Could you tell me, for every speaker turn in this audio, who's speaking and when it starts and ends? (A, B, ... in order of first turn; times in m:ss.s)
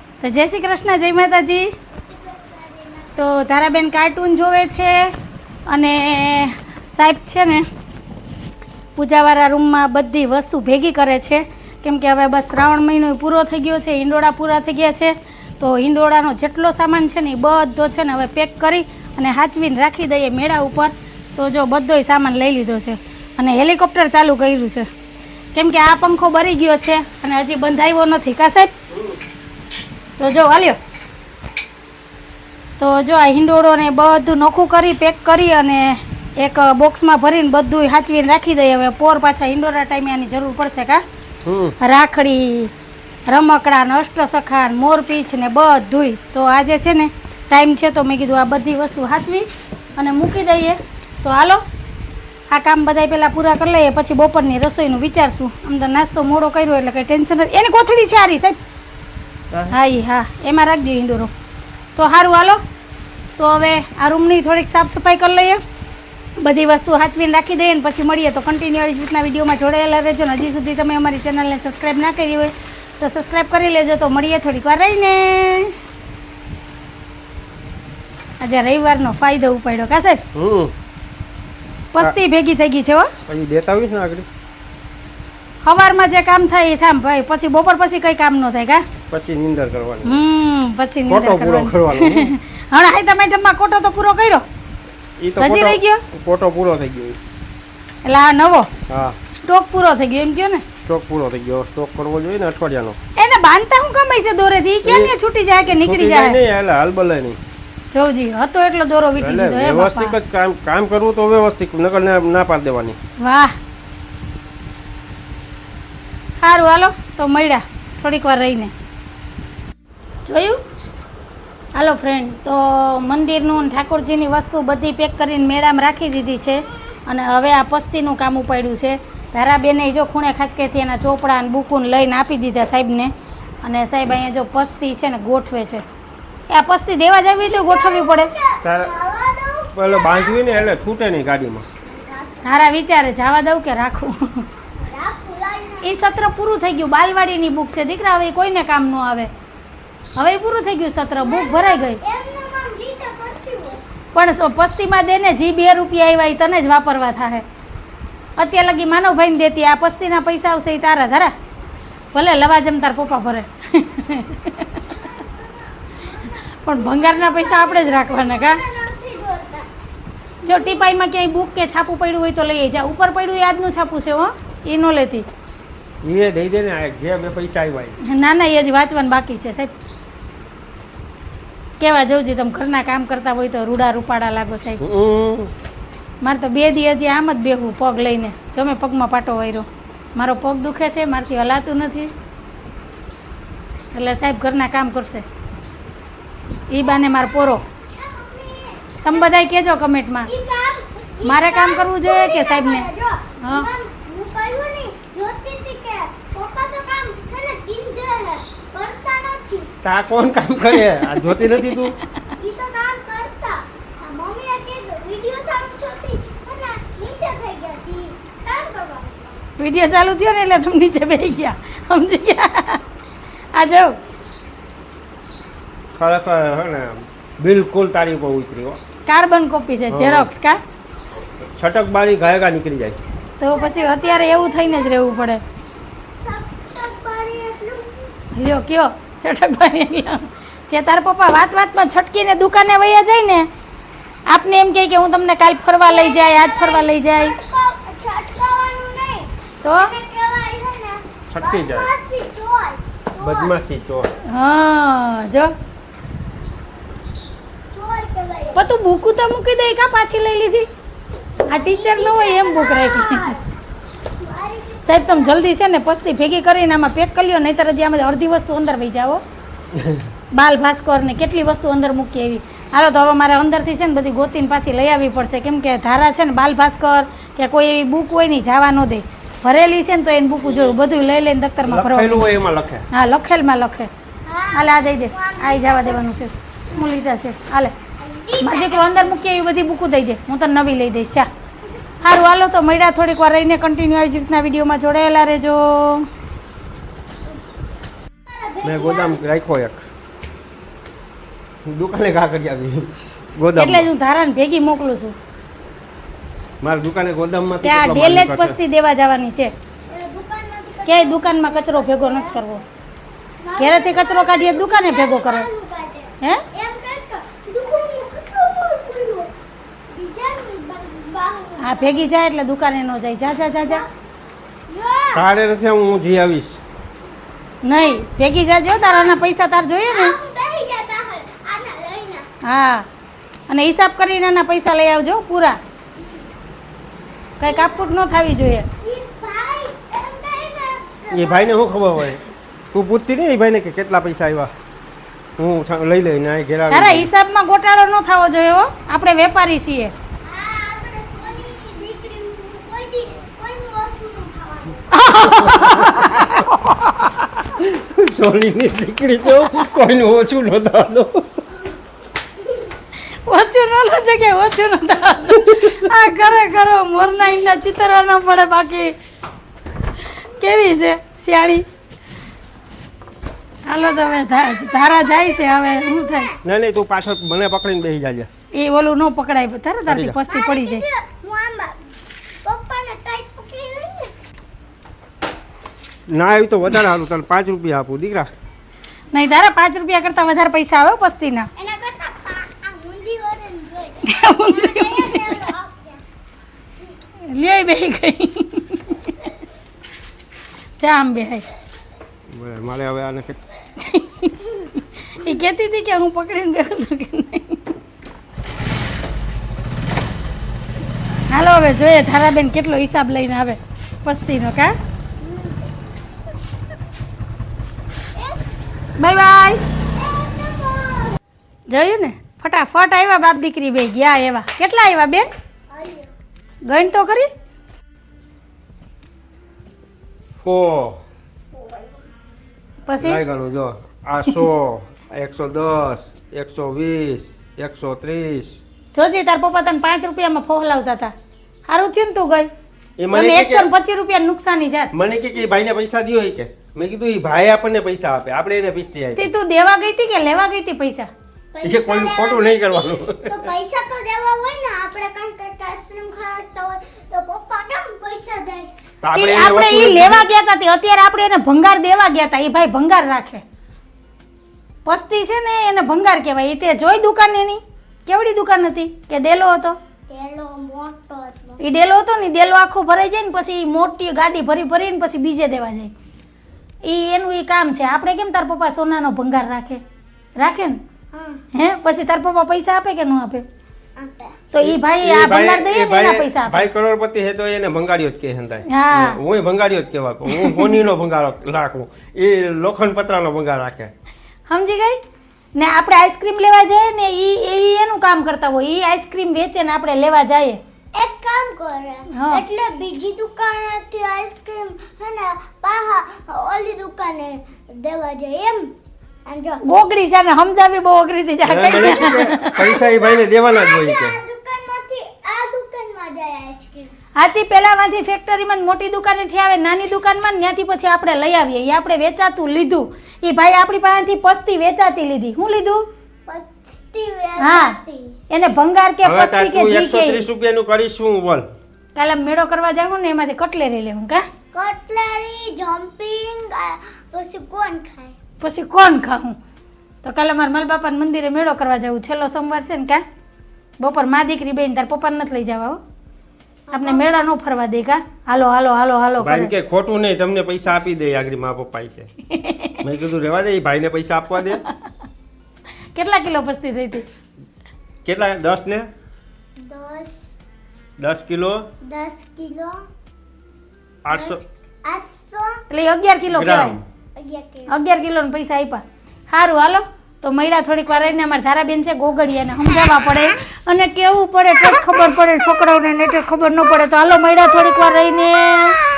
0:00.2-0:01.7 A
0:01.9-0:03.6 B
0:03.2-0:05.1 A
0:05.7-0:07.6 A
0:09.0-0:24.9 A
0:25.5-0:28.7 A
0:30.2-0:30.8 A
0:32.8-0:41.0 A
0:41.4-0:41.8 C
0:41.8-0:42.7 A
0:43.3-0:51.6 A
0:52.5-0:58.6 A
0:59.7-1:01.3 A
1:02.0-1:02.6 A
1:03.4-1:05.6 A
1:06.4-1:15.7 A
1:18.4-1:20.2 A
1:20.3-1:20.7 C
1:21.9-1:23.1 A
1:23.3-1:24.2 C
1:25.6-1:28.8 A
1:29.1-1:30.2 C
1:30.0-1:34.4 A
1:31.1-1:32.3 C
1:35.2-1:37.2 C
1:35.4-1:36.0 A
1:38.0-1:38.7 A
1:38.9-1:39.2 C
1:39.4-1:40.6 A
1:40.8-1:43.0 C
1:43.2-1:46.4 A
1:44.8-1:45.1 C
1:45.7-1:47.4 C
1:47.9-1:50.2 A
1:49.2-1:53.0 C
1:53.2-1:53.5 A
1:56.4-1:58.7 A
2:00.2-2:00.6 A
2:01.7-2:15.8 A
2:16.5-2:18.3 A
2:17.4-2:20.7 B
2:18.6-2:18.9 C
2:19.7-2:21.6 C
2:21.9-2:22.5 B
2:22.4-2:24.4 A
2:24.8-2:26.0 B
2:25.8-2:29.3 A
2:30.2-2:32.0 A
2:31.2-2:33.8 B
2:34.1-2:37.4 A
2:38.4-2:41.3 A
2:42.1-2:44.8 A
2:46.6-2:48.6 A
2:46.7-2:49.7 B
2:50.4-2:50.9 B
2:50.4-2:55.2 A
2:56.0-2:58.0 C
2:58.0-2:59.7 A
3:01.8-3:04.8 A
3:04.8-3:05.5 C
3:06.2-3:12.1 A
3:13.9-3:15.2 A
3:16.7-3:17.6 A
3:16.8-3:17.1 B
3:17.9-3:19.3 B
3:19.0-3:20.3 A
3:20.3-3:29.7 B
3:21.2-3:22.9 A
3:23.4-3:23.7 A
3:29.8-3:31.9 C
3:31.1-3:31.9 A
3:32.4-3:39.4 B
3:39.6-3:42.8 A
3:43.5-3:43.9 A
3:45.9-3:48.8 C
3:49.0-3:50.6 A
3:49.9-3:50.3 C
3:51.6-3:53.0 C
3:53.4-3:55.4 A
3:53.5-3:55.3 B
3:56.2-3:58.1 B
3:58.3-4:03.5 A
4:04.3-4:07.3 A
4:05.7-4:13.5 B
4:09.6-4:09.9 A
4:11.3-4:11.9 C
4:13.2-4:14.1 C
4:14.3-4:15.5 A
4:17.7-4:18.7 B
4:18.5-4:20.6 A
4:21.5-4:23.3 A
4:21.5-4:23.4 B
4:24.2-4:25.5 B
4:24.8-4:29.2 A
4:30.3-4:42.2 A
4:40.5-4:40.7 B
4:41.6-4:42.8 C
4:42.9-4:43.9 A
4:44.2-4:46.0 B
4:44.5-4:47.7 A
4:46.7-4:47.1 B
4:48.0-4:49.2 B
4:48.4-4:51.3 A
4:52.0-4:56.1 A
4:58.2-4:59.2 B
4:58.6-4:59.8 C
5:01.7-5:03.9 C
5:03.5-5:05.1 A
5:06.6-5:08.6 C
5:07.6-5:09.5 A
5:09.9-5:12.4 B
5:10.8-5:12.6 A
5:13.4-5:19.3 B
5:13.6-5:15.5 A
5:19.9-5:22.1 B
5:21.6-5:23.8 A
5:24.7-5:25.3 B
5:25.1-5:26.6 C
5:27.6-5:30.2 A
5:27.7-5:28.0 B
5:28.7-5:29.2 B
5:29.8-5:32.3 B
5:32.4-5:32.8 A
5:33.5-5:35.6 A
5:37.4-5:38.6 A
5:37.4-5:38.0 B
5:38.8-5:41.5 B
5:41.1-5:42.2 C
5:42.7-5:44.5 C
5:45.4-5:47.1 C
5:46.7-5:49.9 A
5:50.2-5:55.1 B
5:54.9-5:56.5 A
5:55.4-5:56.0 C
5:57.5-6:01.3 C
6:03.2-6:08.9 A
6:10.1-6:11.6 A
6:13.6-6:16.3 A
6:13.7-6:16.4 B
6:16.4-6:18.3 C
6:18.5-6:20.8 A
6:19.9-6:20.2 C
6:20.3-6:21.8 B
6:22.4-6:24.1 B
6:26.1-6:28.3 C
6:29.1-6:31.5 A
6:31.6-6:36.0 B
6:34.0-6:35.5 A
6:37.2-6:39.2 A
6:40.8-6:41.4 A
6:42.3-6:43.4 C
6:43.8-6:44.6 A
6:45.1-6:47.7 A
6:51.3-6:54.7 A
6:55.2-6:55.7 B
6:58.2-6:58.4 B
6:59.0-6:59.6 A
7:00.0-7:01.2 B
7:01.7-7:05.3 A
7:05.7-7:06.1 B
7:06.6-7:07.3 A
7:10.4-7:11.0 C
7:12.9-7:13.2 A
7:13.0-7:18.6 C
7:18.9-7:21.1 A
7:21.7-7:22.5 A
7:23.0-7:23.7 C
7:23.1-7:24.9 A
7:24.9-7:29.3 C
7:29.2-7:31.1 A
7:31.5-7:38.7 B
7:31.6-7:33.5 C
7:39.0-7:40.2 C
7:39.1-7:43.4 A
7:44.8-7:49.8 A
7:50.1-7:51.6 B
7:51.6-7:55.9 A
7:56.8-7:59.8 A
8:00.4-8:00.8 A
8:01.1-8:01.4 B
8:01.5-8:03.4 A
8:04.0-8:04.5 B
8:04.5-8:06.7 A
8:04.6-8:13.9 C
8:08.7-8:09.2 A
8:10.3-8:10.7 A
8:14.5-8:15.0 A
8:15.5-8:20.6 A
8:20.9-8:28.7 B
8:22.1-8:22.4 A
8:29.3-8:29.6 B
8:29.6-8:32.7 A
8:31.4-8:34.2 C
8:31.9-8:36.9 B
8:37.2-8:45.8 A
8:46.3-8:48.2 B
8:47.4-8:47.7 A
8:48.3-8:50.3 A
8:49.0-8:51.4 C
8:51.9-8:54.2 A
8:54.5-8:58.1 B
8:58.4-8:59.4 A
9:00.0-9:03.0 A
9:03.8-9:05.8 A
9:06.7-9:07.3 B
9:06.7-9:09.5 A
9:09.2-9:12.1 C
9:12.3-9:12.8 A
9:12.8-9:14.6 C
9:15.9-9:17.0 A
9:18.0-9:18.9 C
9:19.7-9:20.3 B
9:21.0-9:21.7 C
9:21.9-9:22.8 B
9:24.0-9:24.4 C
9:24.1-9:25.6 B
9:25.7-9:26.8 A
9:26.3-9:26.8 C
9:27.2-9:27.7 B
9:27.7-9:38.8 A
9:32.8-9:33.2 B